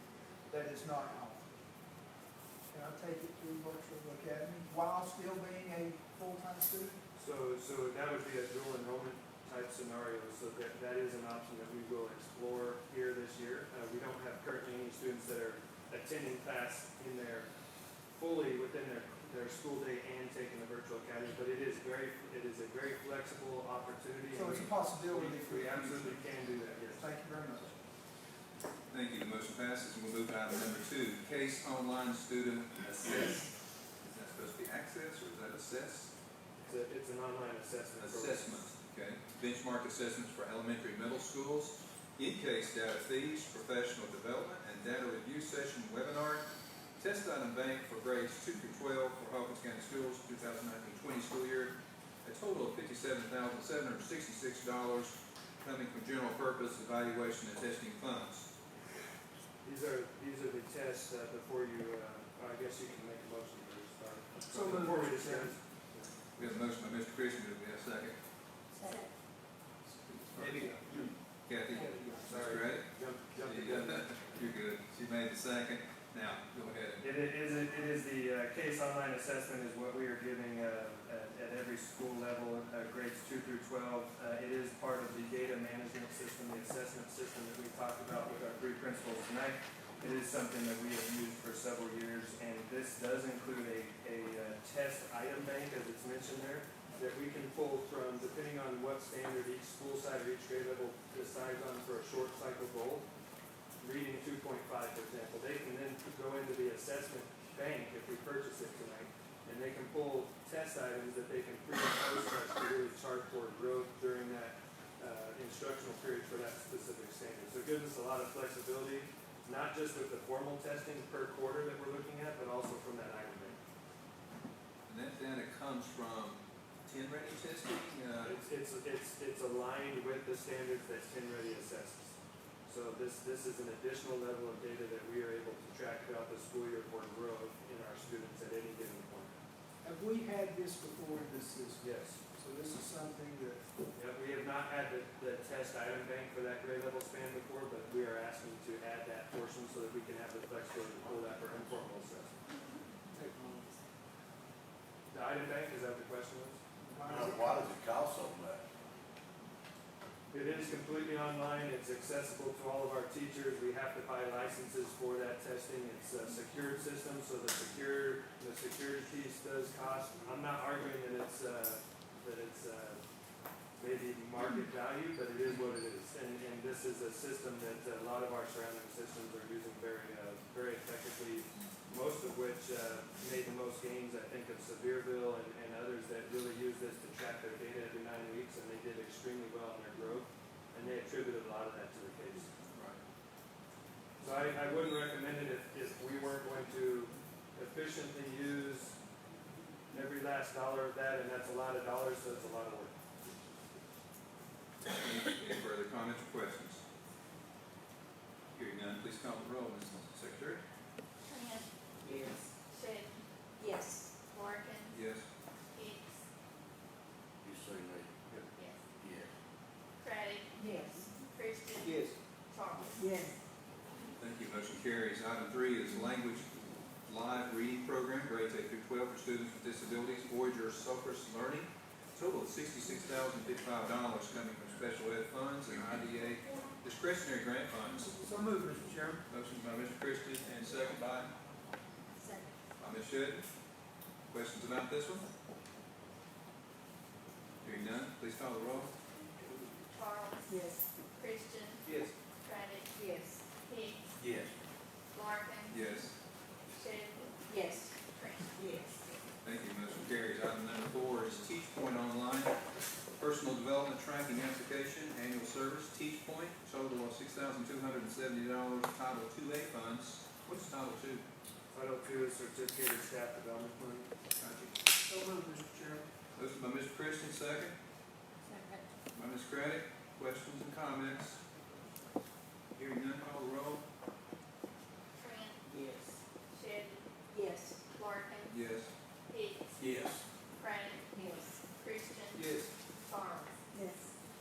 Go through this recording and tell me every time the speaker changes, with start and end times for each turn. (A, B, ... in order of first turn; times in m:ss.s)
0:00.5-0:01.4 A
0:02.7-0:07.0 A
0:07.2-0:17.5 B
0:18.1-0:27.1 B
0:24.3-0:26.3 A
0:26.9-0:27.8 A
0:28.9-0:36.1 C
0:36.6-0:38.7 B
0:38.0-0:46.4 C
0:47.0-0:58.5 C
0:59.6-1:06.1 B
1:04.5-1:05.5 A
1:06.4-1:08.2 C
1:08.8-1:09.1 D
1:09.9-1:10.8 C
1:10.4-1:11.1 A
1:10.4-1:11.1 B
1:11.4-1:17.1 C
1:11.8-1:12.3 A
1:11.8-1:14.1 B
1:17.0-1:43.0 B
1:43.8-2:03.6 B
2:04.9-2:08.4 C
2:08.2-2:12.2 B
2:12.7-2:19.3 B
2:19.8-2:23.6 A
2:21.8-2:22.2 B
2:23.9-2:32.3 B
2:33.1-2:33.6 A
2:35.1-2:36.6 B
2:36.8-2:37.7 A
2:37.0-2:38.6 E
2:40.3-2:53.0 B
2:53.8-3:12.5 B
3:12.7-3:13.0 C
3:14.2-3:19.0 B
3:19.9-3:22.9 B
3:24.8-3:26.8 C
3:28.5-3:30.6 C
3:31.2-3:31.6 F
3:32.0-3:32.4 D
3:32.7-3:33.2 F
3:33.6-3:34.1 D
3:34.3-3:35.0 F
3:34.9-3:35.2 C
3:35.7-3:36.2 F
3:37.4-3:38.5 E
3:38.6-3:38.8 F
3:39.0-3:39.3 E
3:40.0-3:40.7 F
3:40.6-3:41.1 D
3:41.2-3:43.0 F
3:43.0-3:43.4 D
3:44.2-3:46.5 C
3:47.0-3:58.1 C
3:58.0-3:59.2 A
3:59.3-4:01.3 C
4:02.1-4:02.6 D
4:02.8-4:03.4 C
4:04.3-4:05.3 C
4:07.6-4:08.9 C
4:09.9-4:11.8 F
4:10.5-4:10.9 D
4:11.8-4:12.1 C
4:12.4-4:13.0 F
4:12.9-4:13.4 D
4:13.6-4:14.0 F
4:14.2-4:14.5 C
4:15.1-4:15.9 F
4:15.7-4:16.1 C
4:16.7-4:17.4 F
4:17.5-4:18.0 D
4:18.1-4:18.5 F
4:18.6-4:19.0 D
4:19.4-4:22.6 C
4:23.1-4:31.2 C
4:31.7-4:34.1 B
4:34.4-4:34.7 C
4:35.1-4:36.0 A
4:36.3-4:37.7 C
4:38.4-4:38.8 D
4:39.1-4:41.4 C
4:42.7-4:43.8 C
4:45.2-4:45.6 F
4:45.7-4:46.1 D
4:46.5-4:47.0 F
4:47.3-4:47.8 D
4:47.9-4:48.6 F
4:48.5-4:48.9 C
4:49.3-4:49.8 F
4:49.8-4:50.2 C
4:50.6-4:52.5 F
4:51.1-4:51.5 D
4:52.3-4:52.7 C
4:53.0-4:53.6 F
4:53.7-4:54.1 D